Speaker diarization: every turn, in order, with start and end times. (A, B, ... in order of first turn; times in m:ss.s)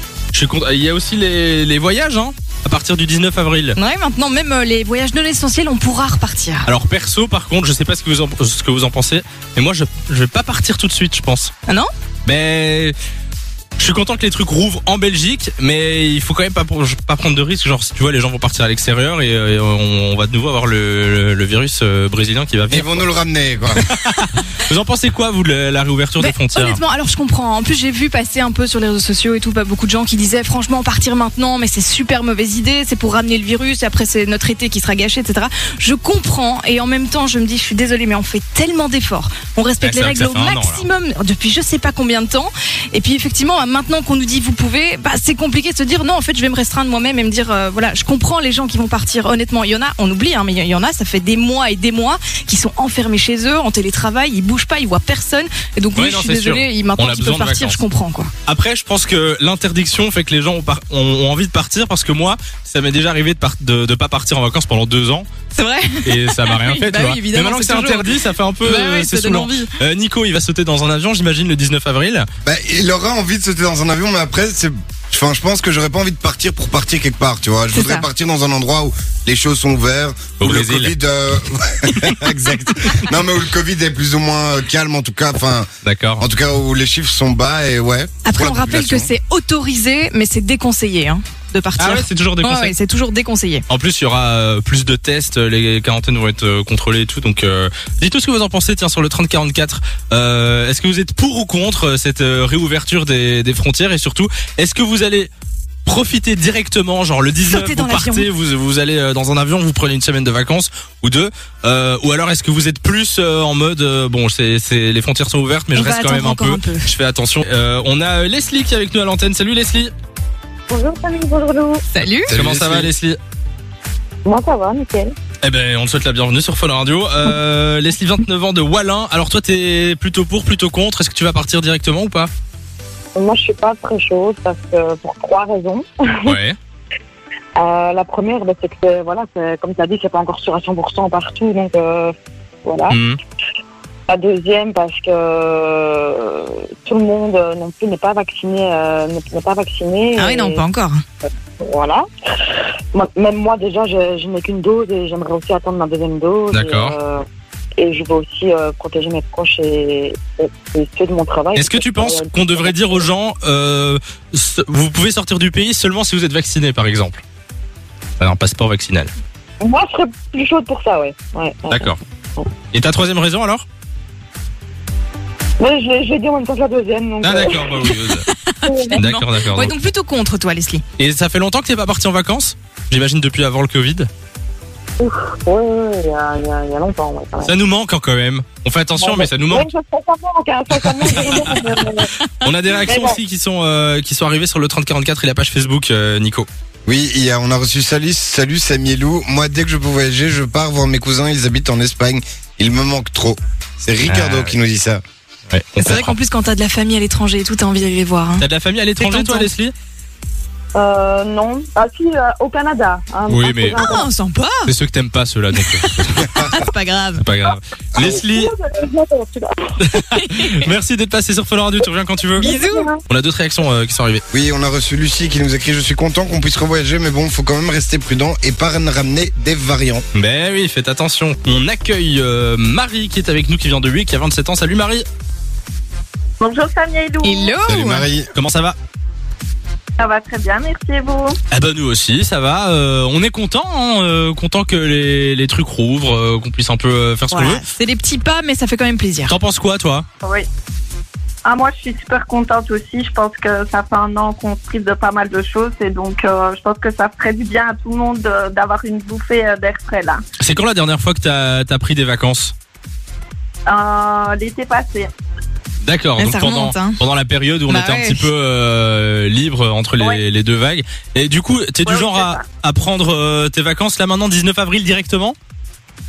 0:00.3-0:03.8 A
0:03.8-0:06.7 B
0:06.6-0:11.5 A
0:12.2-0:12.9 A
0:13.8-0:23.0 A
0:22.7-0:23.8 C
0:23.9-0:26.8 A
0:26.2-0:58.3 B
0:39.8-0:40.9 A
0:55.9-0:57.8 A
0:58.4-1:05.3 A
1:05.5-1:09.7 B
1:06.0-1:12.3 A
1:12.4-1:25.7 C
1:17.7-1:18.1 B
1:20.4-1:21.0 A
1:25.8-1:26.2 A
1:26.2-1:29.1 C
1:28.2-1:33.6 B
1:31.8-1:32.7 A
1:33.7-1:45.3 A
1:45.8-1:59.9 A
1:47.4-1:48.3 B
1:55.7-1:56.9 B
2:00.7-2:01.8 D
2:01.9-2:02.3 B
2:02.3-2:02.9 C
2:02.3-2:03.2 A
2:04.2-2:05.1 D
2:05.4-2:12.3 A
2:13.1-2:16.4 D
2:16.2-2:16.6 A
2:17.6-2:22.1 D
2:22.6-2:23.0 D
2:22.9-2:23.2 A
2:24.1-2:30.6 D
2:30.2-2:31.0 B
2:31.6-2:32.0 D
2:32.9-2:37.2 D
2:36.5-2:37.0 A
2:37.8-2:43.0 D
2:41.5-2:47.2 A
2:48.2-2:49.1 A
2:49.6-2:52.5 D
2:51.7-2:52.0 A
2:52.7-2:53.6 A
2:55.6-2:57.9 D
2:57.2-2:58.3 A
2:58.3-3:00.8 B
2:58.6-2:59.0 D
2:58.9-2:59.7 A
3:01.0-3:04.1 A
3:05.0-3:07.5 D
3:07.4-3:09.7 A
3:09.0-3:12.1 D
3:10.7-3:16.5 A
3:12.8-3:13.2 D
3:16.8-3:25.0 C
3:24.0-3:24.6 A
3:25.5-3:26.2 A
3:25.8-3:28.4 B
3:28.4-3:29.7 A
3:29.0-3:29.5 B
3:30.7-3:34.0 D
3:33.3-3:33.9 A
3:33.7-3:34.7 B
3:34.6-3:36.4 A
3:35.6-3:37.2 B
3:37.2-3:38.5 A
3:38.0-3:39.7 D
3:39.8-3:42.5 A
3:40.2-3:40.7 B
3:42.4-3:42.9 B
3:42.4-3:43.0 D
3:43.1-3:44.2 A
3:44.3-3:50.0 C
3:50.1-3:55.0 A
3:56.4-3:57.6 E
3:57.2-3:58.0 B
3:57.6-3:58.3 C
3:58.3-3:58.8 A
4:00.0-4:01.4 E
4:01.5-4:07.6 A
4:07.3-4:09.3 B
4:09.3-4:10.0 A
4:11.4-4:20.2 E
4:20.4-4:22.5 A
4:23.7-4:25.1 E
4:25.8-4:35.4 A
4:26.2-4:27.0 B
4:27.7-4:28.3 B
4:31.8-4:32.4 E